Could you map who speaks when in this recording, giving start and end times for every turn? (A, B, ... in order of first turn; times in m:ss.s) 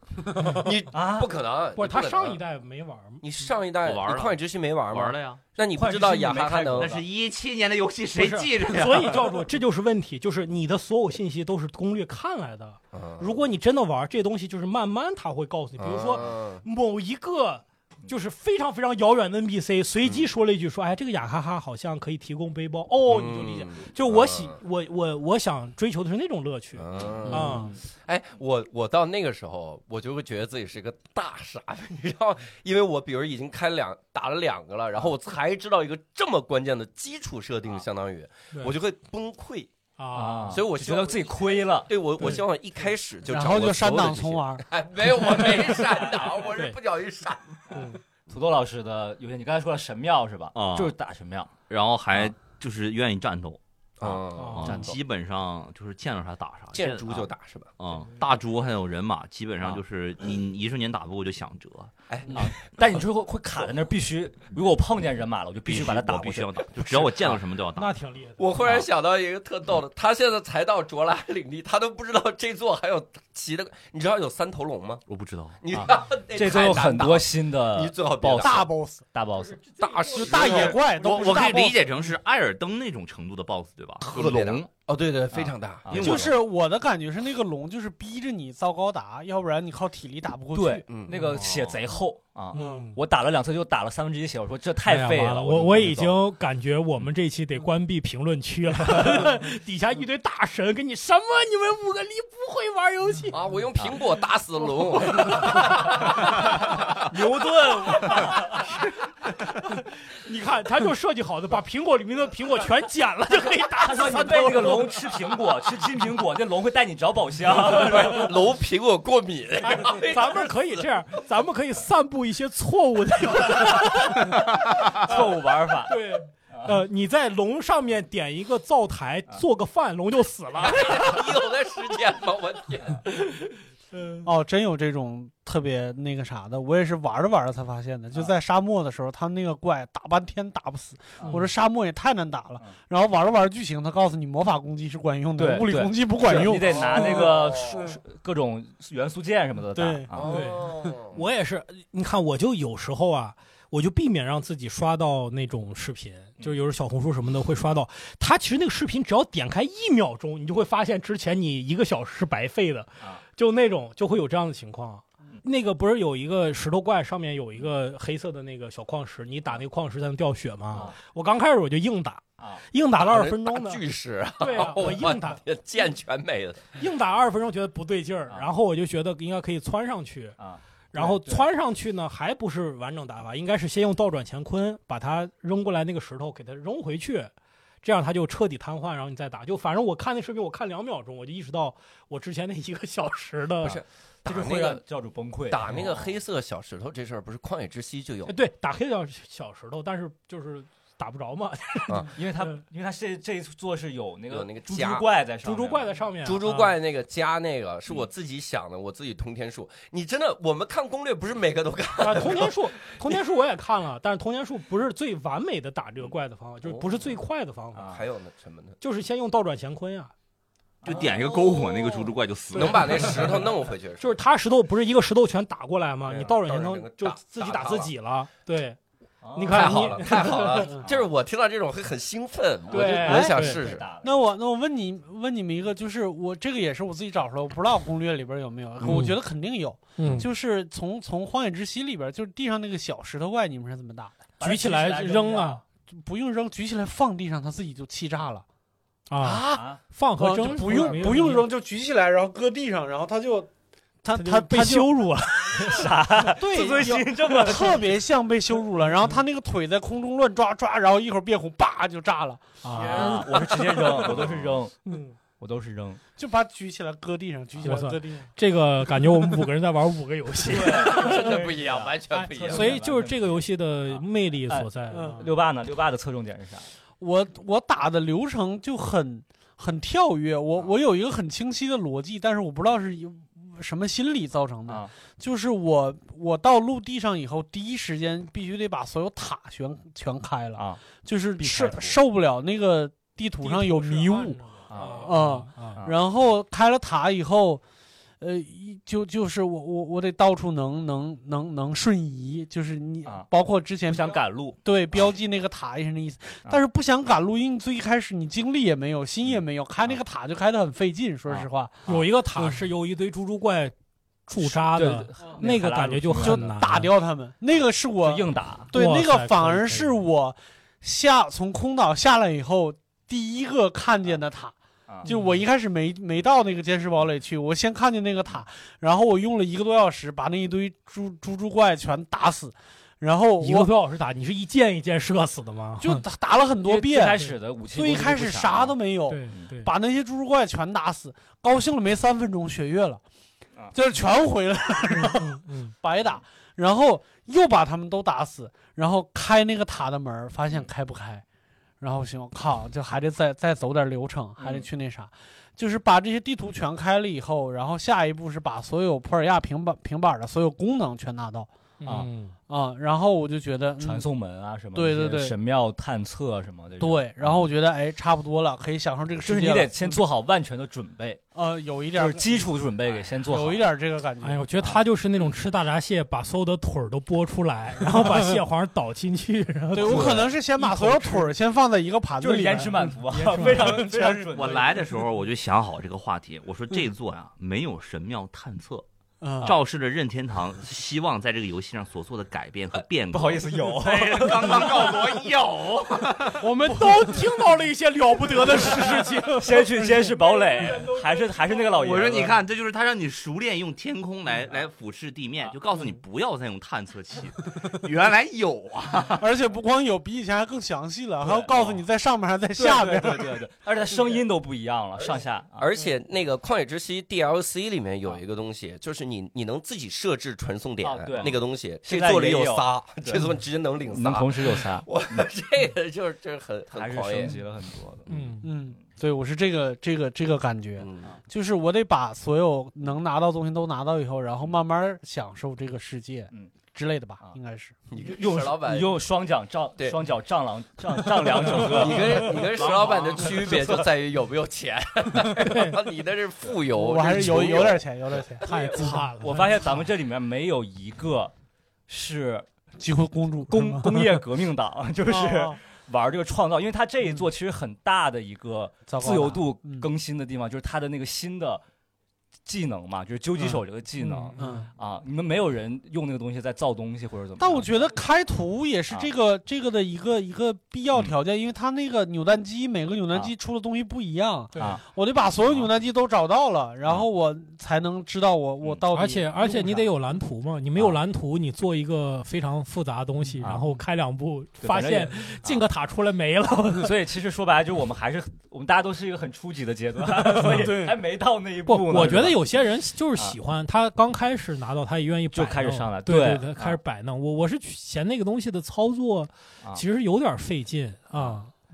0:00.4-0:00.7 A
0:00.5-0:02.4 B
0:00.9-0:01.3 C
0:01.8-0:03.2 A
0:03.2-0:07.0 B
0:03.8-0:04.4 D
0:04.9-0:05.4 D
0:05.7-0:07.0 C
0:06.8-0:09.3 D
0:08.2-0:27.8 A
0:12.9-0:13.4 B
0:15.8-0:16.6 B
0:23.1-0:24.6 B
0:26.8-0:39.7 B
0:27.3-0:27.7 E
0:40.0-0:40.6 A
0:40.1-0:41.9 C
0:40.5-0:47.9 B
0:43.3-0:44.7 E
0:47.7-0:48.0 A
0:48.3-0:51.5 C
0:50.5-0:50.9 D
0:51.7-1:01.9 D
0:54.0-0:55.0 B
0:54.4-0:54.8 A
0:56.7-0:57.7 B
1:02.1-1:02.5 B
1:02.3-1:07.4 C
1:05.7-1:08.0 D
1:07.8-1:08.5 A
1:08.4-1:15.0 B
1:15.1-1:15.6 D
1:15.6-1:18.7 B
1:15.7-1:19.6 C
1:18.4-1:19.0 E
1:19.4-1:21.4 A
1:19.8-1:20.8 B
1:20.1-1:21.8 E
1:20.9-1:24.7 D
1:24.0-1:26.4 B
1:25.3-1:26.3 C
1:25.9-1:26.3 D
1:26.0-1:31.0 E
1:30.5-1:36.2 C
1:30.9-1:31.2 B
1:31.5-1:31.8 D
1:32.5-1:32.9 A
1:32.6-1:33.0 E
1:34.8-1:43.4 A
1:43.3-1:46.0 B
1:45.7-1:46.3 C
1:46.9-1:48.8 C
1:47.1-1:48.7 A
1:49.4-1:55.0 A
1:53.8-1:58.4 C
1:57.5-2:00.8 B
1:59.6-2:04.5 A
2:04.8-2:06.0 C
2:05.9-2:11.3 A
2:10.6-2:13.0 B
2:13.9-2:14.3 A
2:14.2-2:28.0 E
2:21.3-2:21.5 A
2:25.4-2:30.3 C
2:26.8-2:27.8 B
2:29.7-2:30.7 E
2:30.1-2:31.2 B
2:30.2-2:53.8 A
2:53.0-2:56.7 B
2:54.4-2:55.4 A
2:56.8-3:00.4 A
3:00.4-3:01.5 C
3:00.9-3:07.3 A
3:07.8-3:13.8 A
3:13.6-3:14.8 B
3:13.7-3:16.1 C
3:15.5-3:18.3 B
3:18.3-3:22.6 A
3:22.1-3:25.9 C
3:24.3-3:25.0 B
3:25.4-3:26.7 A
3:26.2-3:33.2 B
3:32.0-3:37.9 A
3:36.6-3:37.1 B
3:37.7-3:38.0 C
3:37.8-3:38.8 B
3:38.8-3:40.1 A
3:40.8-3:43.4 D
3:40.9-3:44.1 B
3:44.0-3:48.8 A
3:46.0-3:47.9 B
3:49.2-3:50.1 C
3:49.4-3:50.7 A
3:49.5-3:53.9 B
3:52.7-3:54.1 C
3:52.7-3:53.6 A
3:54.0-4:04.3 E
3:58.8-3:59.2 A
4:00.0-4:00.3 A
4:04.4-4:05.6 C
4:04.4-4:05.6 A
4:05.8-4:08.4 E
4:09.1-4:11.5 A
4:09.2-4:13.5 E
4:09.5-4:09.8 C
4:14.0-4:14.9 E
4:14.1-4:17.3 A
4:15.5-4:18.0 C
4:16.2-4:24.1 E
4:22.6-4:24.0 A
4:22.7-4:24.8 C
4:22.8-4:23.3 B
4:24.9-4:25.2 A
4:25.4-4:26.0 C
4:26.2-4:28.3 E
4:27.6-4:31.3 A
4:30.4-4:36.7 C
4:30.6-4:32.8 B
4:32.4-4:35.2 A
4:34.9-4:35.3 E
4:37.0-4:57.6 E
4:50.6-4:50.8 C
4:51.4-4:52.0 C
4:53.4-4:55.8 A
4:54.7-4:55.1 C
4:58.2-5:11.8 E
5:03.9-5:04.6 C
5:11.3-5:12.1 C
5:11.9-5:13.7 A
5:12.4-5:12.6 E
5:14.3-5:16.9 A
5:14.4-5:16.5 C
5:16.2-5:33.7 E
5:18.0-5:18.7 C
5:18.7-5:20.0 A
5:25.1-5:25.4 A
5:33.4-5:36.0 A
5:35.8-5:43.0 E
5:36.6-5:38.8 C
5:39.1-5:39.7 A
5:43.7-5:51.2 E
5:45.0-5:45.7 A
5:51.8-6:01.5 E
5:54.4-5:54.7 C
6:01.8-6:02.4 A
6:02.5-6:04.1 E
6:03.8-6:07.5 C
6:04.7-6:05.3 E
6:06.8-6:09.8 E
6:09.2-6:11.2 C
6:11.3-6:12.5 E
6:12.0-6:13.6 C
6:13.2-6:14.4 E
6:14.2-6:21.3 A
6:18.0-6:18.4 E
6:19.7-6:24.3 E
6:19.8-6:20.3 C
6:22.2-6:24.7 C
6:22.8-6:23.9 A
6:24.1-6:28.9 D
6:29.2-6:29.6 E
6:29.4-6:36.4 D
6:32.7-6:35.0 C
6:36.4-6:37.4 E
6:36.4-6:39.6 A
6:38.1-6:40.2 E
6:39.4-6:42.4 C
6:40.1-6:42.0 A
6:41.8-6:49.3 D
6:49.2-6:53.5 E
6:51.2-6:51.8 C
6:52.6-6:55.7 C
6:55.6-7:07.4 B
7:00.8-7:03.3 C
7:03.9-7:05.2 C
7:06.7-7:08.4 C
7:08.1-7:08.5 A
7:08.4-7:17.8 E
7:10.8-7:11.2 B
7:17.9-7:19.0 B
7:18.0-7:23.9 C
7:21.4-7:27.8 B
7:22.6-7:23.3 D
7:25.4-7:25.8 A
7:26.7-7:29.8 E
7:28.4-7:31.3 C
7:28.5-7:29.6 A
7:31.9-7:32.5 C
7:32.8-7:34.2 E
7:33.5-7:41.6 C
7:35.1-7:35.6 E
7:38.9-7:39.9 E
7:42.5-7:47.9 C
7:44.0-7:44.6 A
7:44.3-7:44.7 E
7:47.4-7:59.9 E
7:58.9-8:06.9 A
8:03.4-8:03.7 C
8:04.6-8:05.6 C
8:06.8-8:12.4 C
8:10.3-8:10.8 A
8:10.4-8:10.9 E
8:11.7-8:21.5 A
8:15.3-8:16.8 C
8:21.1-8:21.4 C